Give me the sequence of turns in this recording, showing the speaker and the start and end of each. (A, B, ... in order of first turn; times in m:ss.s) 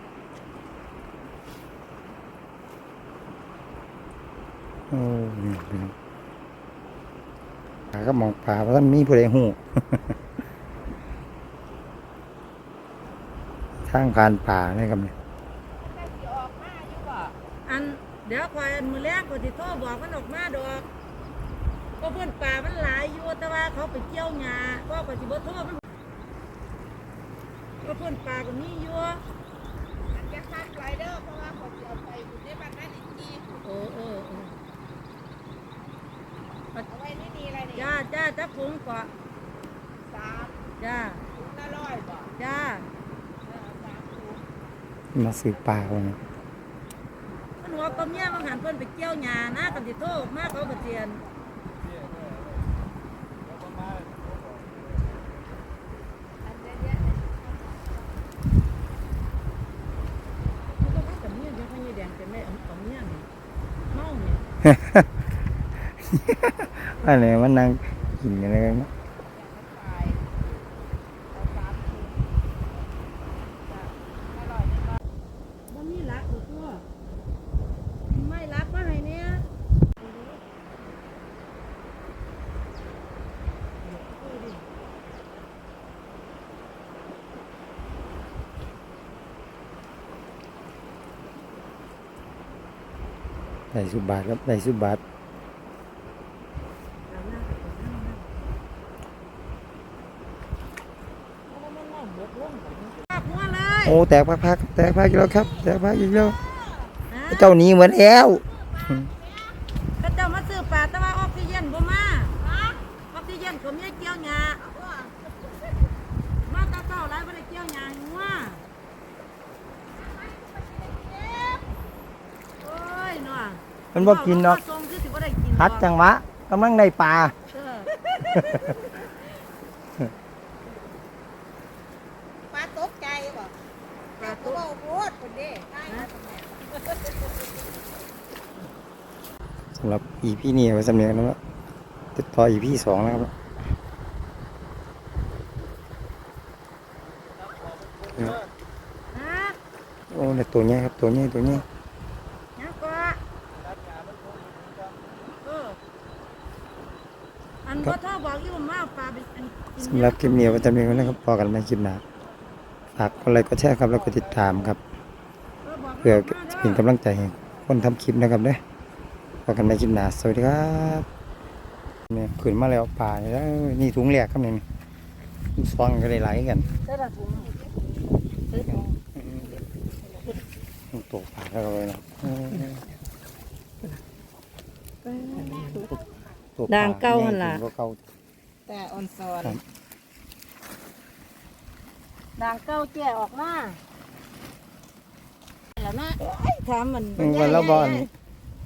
0:04.9-0:05.9 A
0:07.9-0:10.1 A
0:13.9-0:15.1 A
0:15.8-0:17.4 B
0:17.7-0:20.8 C
0:22.0-0:25.8 C
0:27.8-0:29.2 C
0:30.1-0:33.6 B
0:33.6-0:34.5 C
0:36.9-0:37.8 B
0:37.7-0:39.1 C
0:40.1-0:40.5 B
0:40.8-0:41.2 C
0:41.4-0:42.3 B
0:42.3-0:42.9 C
0:43.4-0:44.4 B
0:45.1-0:46.2 A
0:47.6-0:51.2 C
0:47.7-0:48.4 B
0:56.4-0:57.8 B
1:00.8-1:03.3 C
1:03.9-1:04.4 C
1:04.6-1:05.1 A
1:06.0-1:08.9 A
1:09.3-1:10.2 B
1:11.3-1:12.2 B
1:13.6-1:15.0 B
1:15.7-1:16.8 C
1:18.1-1:19.4 C
1:20.0-1:20.4 C
1:23.8-1:24.6 C
1:33.7-1:35.0 A
1:37.1-1:38.4 C
1:41.5-1:44.0 C
1:43.8-1:46.4 A
1:46.2-1:46.8 B
1:47.1-1:47.5 C
1:47.3-1:49.1 A
1:48.6-1:49.5 B
1:50.0-1:52.4 C
1:52.4-1:52.8 B
1:53.1-1:54.6 C
1:54.7-1:55.3 B
1:56.4-1:58.6 C
2:00.0-2:01.7 B
2:02.6-2:05.9 C
2:03.9-2:04.6 A
2:05.6-2:07.3 A
2:07.5-2:08.8 C
2:08.3-2:08.6 A
2:12.5-2:13.5 B
2:14.2-2:14.7 C
2:14.2-2:17.3 B
2:19.8-2:21.4 A
2:22.2-2:23.3 A
2:29.1-2:29.6 C
2:30.1-2:31.6 A
2:32.6-2:33.2 C
2:35.4-2:35.8 C
2:37.6-2:41.2 C
2:39.8-2:42.0 A
2:43.0-2:44.8 A
2:45.6-2:46.8 C
2:46.0-2:48.6 A
2:49.4-2:51.0 A
2:52.1-2:54.6 A
2:55.6-2:56.6 A
2:56.8-2:57.6 C
2:58.5-2:58.9 C
2:59.2-2:59.5 A
3:00.9-3:02.8 A
3:05.4-3:05.9 B
3:06.6-3:08.0 A
3:06.7-3:07.6 C
3:12.4-3:13.8 C
3:15.8-3:18.1 C
3:17.2-3:18.1 A